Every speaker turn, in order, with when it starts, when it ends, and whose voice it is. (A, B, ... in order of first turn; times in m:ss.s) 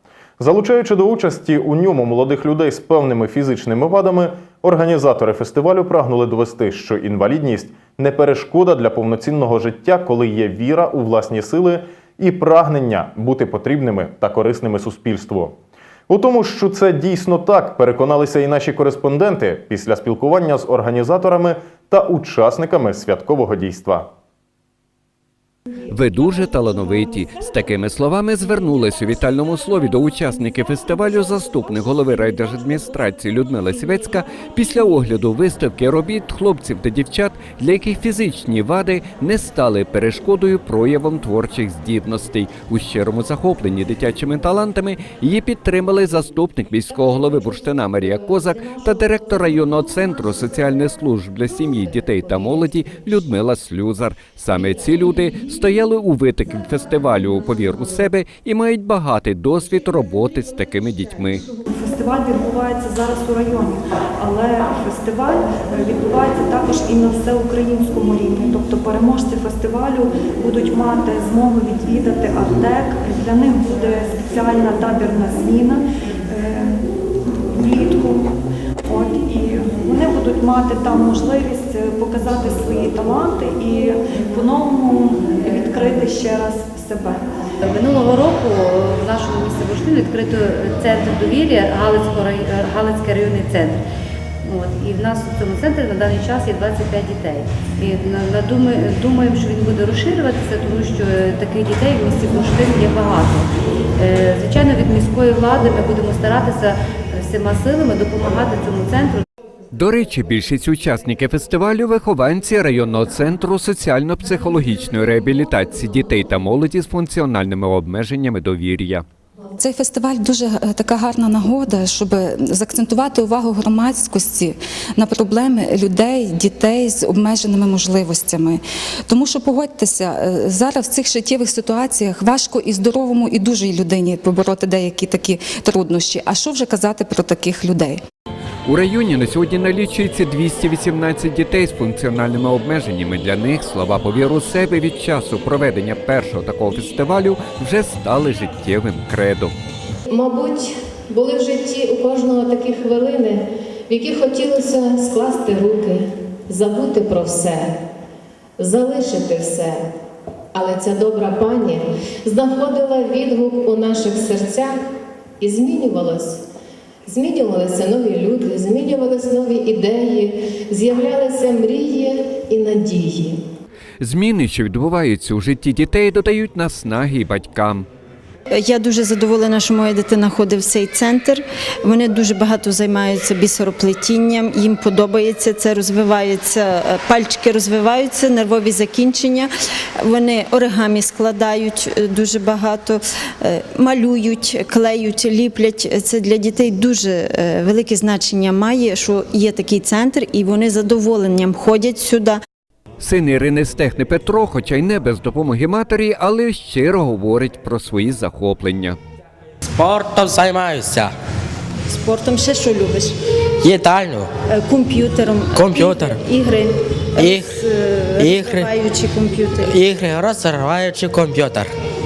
0:00.4-0:15.6 A
0:16.1-0:24.1 A
0:25.9-1:01.5 B
1:01.7-1:27.2 C
1:27.8-1:33.8 D
1:34.5-1:43.5 D
1:44.0-1:49.2 D
1:49.7-1:59.0 B
1:59.6-2:18.0 E
2:18.7-2:29.5 B
2:30.1-2:37.7 F
2:38.6-2:39.8 F
2:40.5-2:44.8 F
2:45.4-2:46.4 F
2:47.1-2:53.4 F
2:54.0-2:57.9 B
2:58.5-3:09.5 G
3:10.0-3:22.4 G
3:23.0-3:29.0 B
3:29.6-3:31.1 H
3:31.9-3:33.2 G
3:33.6-3:34.3 H
3:34.5-3:39.8 G
3:35.6-3:36.2 H
3:37.2-3:37.6 H
3:38.2-3:38.7 H
3:39.6-3:41.7 H